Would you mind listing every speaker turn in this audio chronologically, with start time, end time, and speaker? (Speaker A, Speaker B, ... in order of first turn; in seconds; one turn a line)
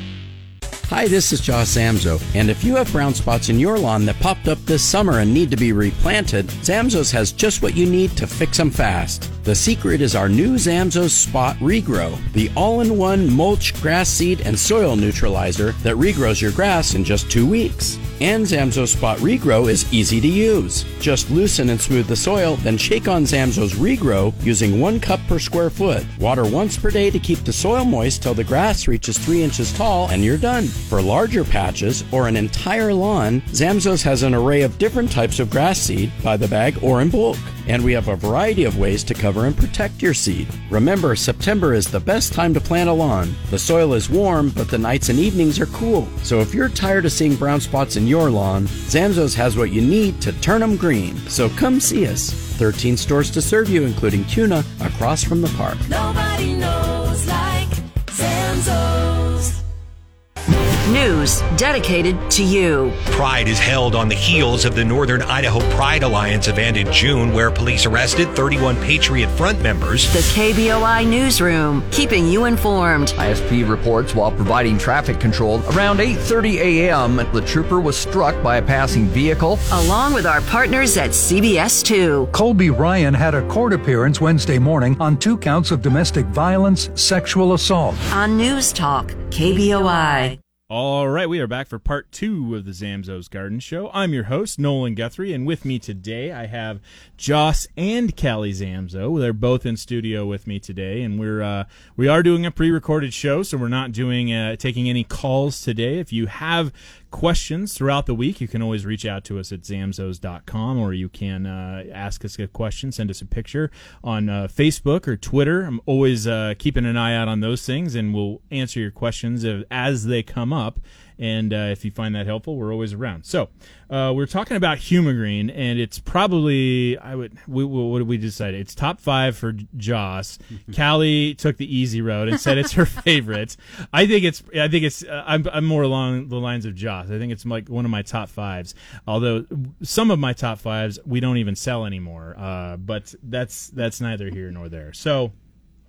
Speaker A: 0.9-55.8
Speaker B: 55.9-59.6
Speaker C: 60.9-63.0
Speaker D: 63.1-70.1
Speaker C: 70.1-73.1
Speaker E: 73.2-79.7
Speaker C: 79.7-82.3
Speaker F: 82.3-88.0
Speaker C: 88.1-90.4
Speaker G: 90.7-145.3